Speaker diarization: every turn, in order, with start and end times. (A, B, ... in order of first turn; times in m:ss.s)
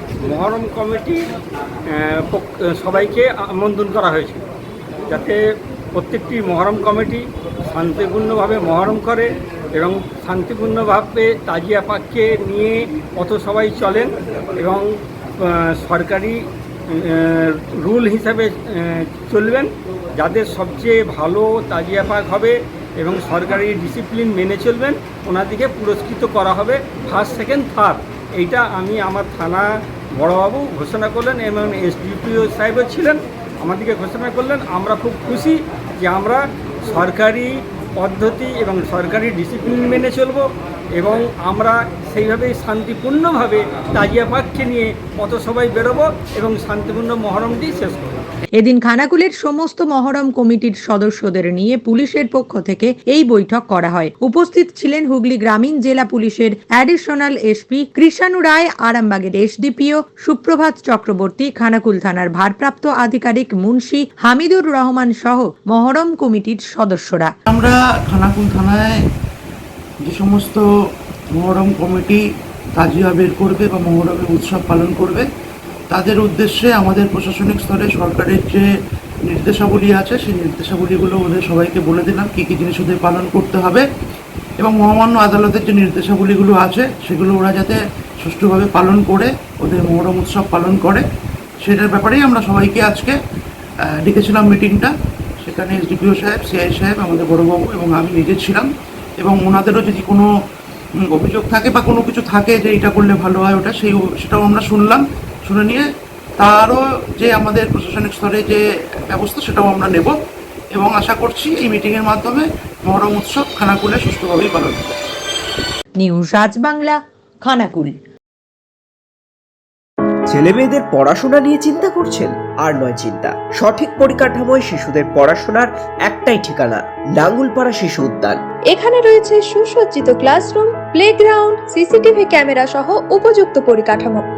0:00.2-0:01.2 A
0:01.9-0:04.4 A
0:05.1-0:05.4 A
0:05.9-0:48.2 A
0:48.6-1:07.3 B
1:07.5-1:09.0 C
1:10.0-1:10.6 C
1:11.4-1:12.2 C
1:12.8-1:15.2 C
1:15.9-1:18.6 C
1:19.3-1:23.8 C
1:24.6-1:31.0 C
1:31.6-1:33.2 C
1:34.0-1:38.7 C
1:39.2-1:40.3 C
1:41.1-1:45.8 C
1:46.4-1:50.1 C
1:50.7-1:54.9 C
1:56.0-1:57.9 B
2:00.3-2:08.4 D
2:08.7-2:14.2 E